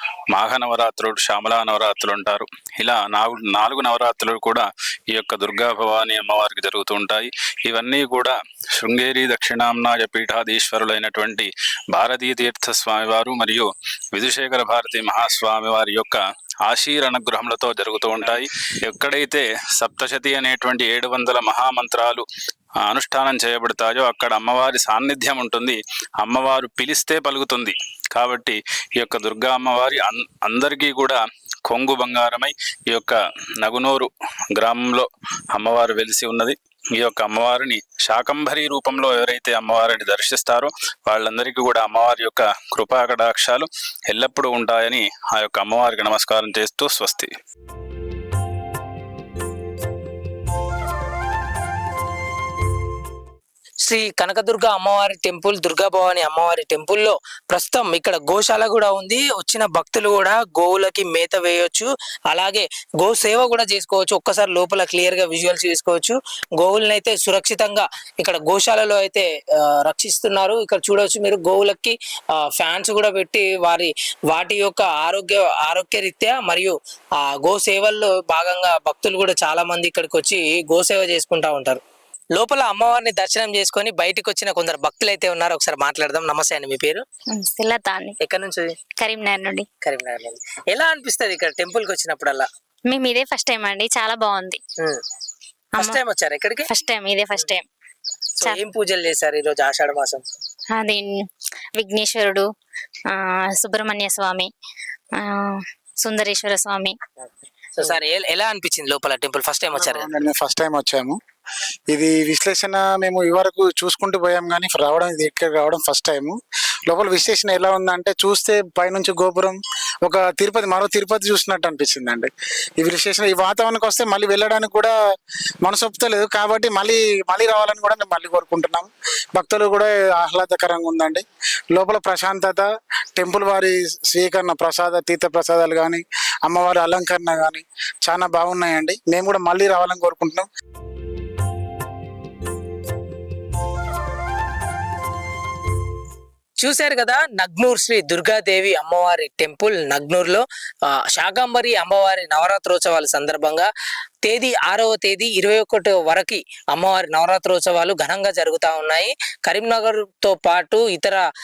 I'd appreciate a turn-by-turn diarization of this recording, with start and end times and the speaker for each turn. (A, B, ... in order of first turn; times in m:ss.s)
0:00.3-0:22.2 A
0:22.8-0:47.3 A
0:53.8-1:21.8 B
1:22.4-1:27.0 B
1:27.3-1:28.2 C
1:28.2-1:28.7 B
1:29.0-1:29.7 C
1:29.8-1:32.5 B
1:32.9-1:34.6 C
1:35.8-1:36.7 B
1:36.7-1:37.6 C
1:38.4-1:40.2 B
1:40.7-1:42.5 C
1:43.1-1:44.5 C
1:45.2-1:47.0 C
1:47.8-1:50.1 B
1:49.7-1:51.2 D
1:51.9-1:56.4 D
1:56.9-2:04.9 D
2:05.6-2:20.5 D
2:26.6-2:33.7 B
2:34.2-2:41.2 B